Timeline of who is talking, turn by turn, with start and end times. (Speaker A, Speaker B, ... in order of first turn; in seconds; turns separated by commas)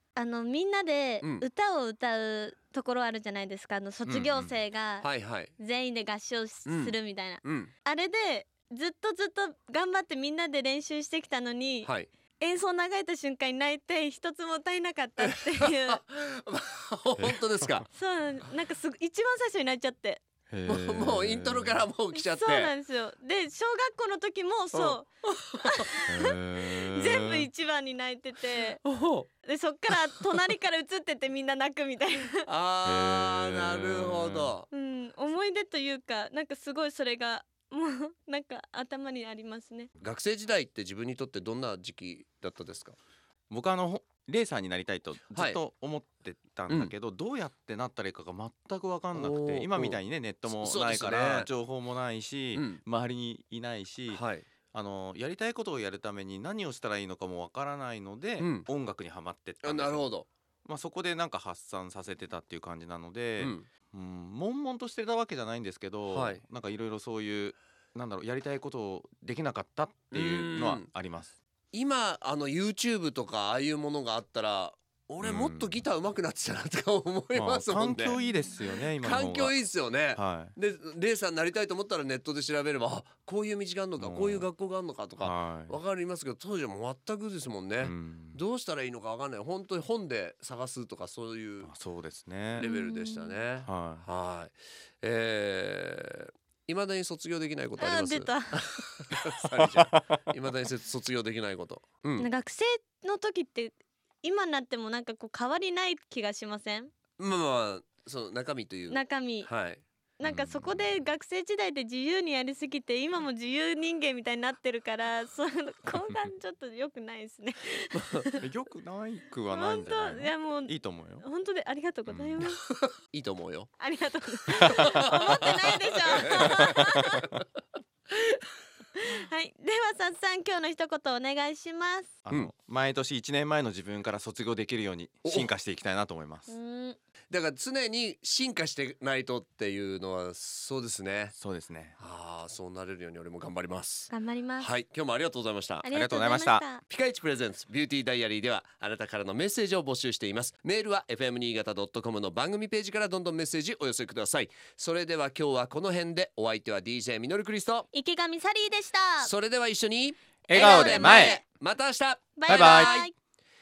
Speaker A: 0.2-5.1, Speaker B: 4.0-4.6, Speaker C: 5.0-5.5, Speaker A: 5.6-16.0, Speaker C: 6.7-7.7, Speaker C: 15.6-17.9, Speaker B: 17.2-17.8, Speaker A: 17.9-20.2, Speaker B: 20.5-21.8, Speaker C: 20.7-22.7, Speaker A: 22.1-25.1, Speaker C: 24.7-25.8, Speaker A: 25.6-28.8, Speaker B: 26.1-27.5, Speaker C: 28.8-29.3, Speaker A: 29.4-32.5, Speaker C: 32.5-34.7, Speaker B: 32.8-34.5, Speaker A: 34.7-39.9, Speaker C: 40.0-43.0, Speaker B: 43.5-60.1, Speaker C: 45.3-45.6, Speaker C: 46.7-46.9, Speaker C: 49.1-51.5, Speaker C: 52.5-52.8, Speaker C: 54.1-54.5, Speaker C: 58.4-58.7, Speaker C: 59.6-60.3, Speaker B: 60.6-71.3, Speaker C: 63.4-63.7, Speaker C: 66.1-66.4, Speaker C: 70.1-70.9, Speaker C: 71.7-78.2, Speaker B: 75.2-75.8, Speaker B: 77.3-79.6, Speaker C: 79.0-91.7, Speaker B: 80.1-80.5, Speaker B: 84.0-84.5, Speaker B: 85.2-85.8, Speaker B: 87.8-88.4, Speaker B: 91.6-92.6, Speaker C: 92.5-102.3, Speaker A: 92.6-93.4, Speaker B: 93.6-94.0, Speaker A: 97.8-98.8, Speaker B: 99.6-99.9, Speaker A: 102.2-106.9, Speaker C: 107.2-109.8, Speaker A: 108.9-109.5, Speaker A: 110.2-118.4, Speaker B: 110.2-110.9, Speaker B: 118.4-121.2, Speaker A: 119.5-122.6, Speaker B: 122.1-122.5, Speaker C: 123.1-123.7, Speaker A: 123.8-127.3, Speaker C: 124.7-125.4, Speaker C: 126.1-126.9, Speaker A: 129.0-132.1, Speaker B: 132.2-136.5, Speaker C: 135.2-135.5, Speaker A: 136.5-137.0, Speaker C: 137.3-141.3, Speaker B: 141.4-142.0, Speaker C: 142.0-145.9, Speaker A: 144.1-144.7, Speaker A: 145.8-146.8, Speaker B: 145.9-146.6, Speaker C: 146.9-157.9, Speaker A: 157.9-159.3, Speaker C: 159.2-163.1, Speaker B: 160.5-161.4, Speaker A: 160.5-161.4, Speaker A: 162.4-163.1, Speaker B: 162.5-163.0